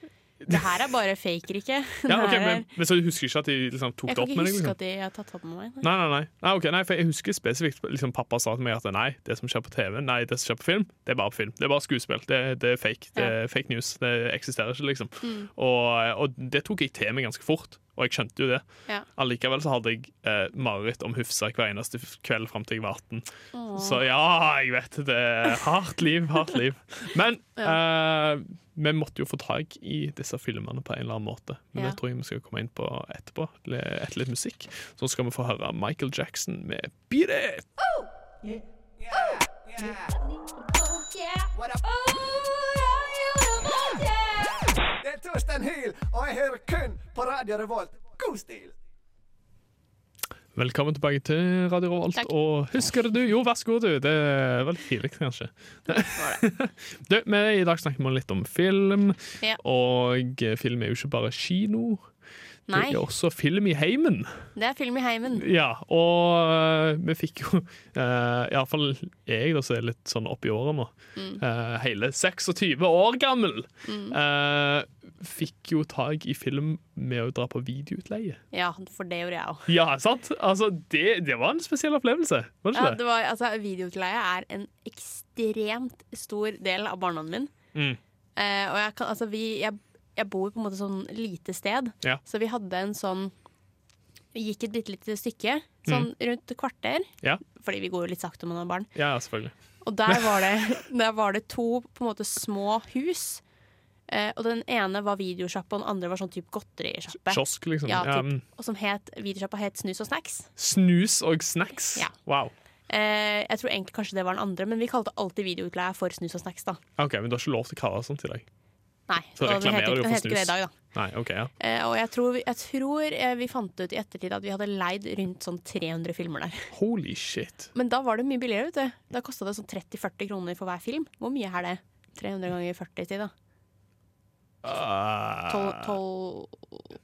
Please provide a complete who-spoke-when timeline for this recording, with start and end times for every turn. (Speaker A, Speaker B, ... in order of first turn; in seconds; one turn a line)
Speaker A: 0.5-2.7
Speaker B: 2.1-4.8
Speaker A: 4.1-5.9
Speaker B: 5.8-37.7
Speaker A: 15.2-15.5
Speaker A: 23.5-24.0
Speaker C: 39.0-40.1
Speaker A: 40.9-41.5
Speaker C: 41.5-48.8
Speaker B: 50.5-62.1
Speaker A: 56.1-56.5
Speaker A: 62.7-63.0
Speaker B: 62.7-64.4
Speaker A: 64.6-65.5
Speaker B: 65.3-78.4
Speaker A: 71.2-71.4
Speaker A: 73.8-74.2
Speaker A: 78.5-79.7
Speaker B: 79.7-83.0
Speaker A: 82.7-87.5
Speaker B: 87.7-88.0
Speaker A: 88.4-93.3
Speaker A: 94.3-98.9
Speaker B: 95.9-96.1
Speaker B: 99.0-99.5
Speaker A: 99.8-103.4
Speaker B: 100.1-100.4
Speaker A: 104.1-110.5
Speaker B: 107.2-108.4
Speaker B: 110.6-112.5
Speaker A: 112.9-116.8
Speaker B: 117.0-118.5
Speaker A: 119.1-120.8
Speaker B: 119.4-121.5
Speaker A: 121.6-126.7
Speaker B: 126.7-127.7
Speaker A: 127.7-133.3
Speaker B: 134.6-136.0
Speaker A: 135.5-136.8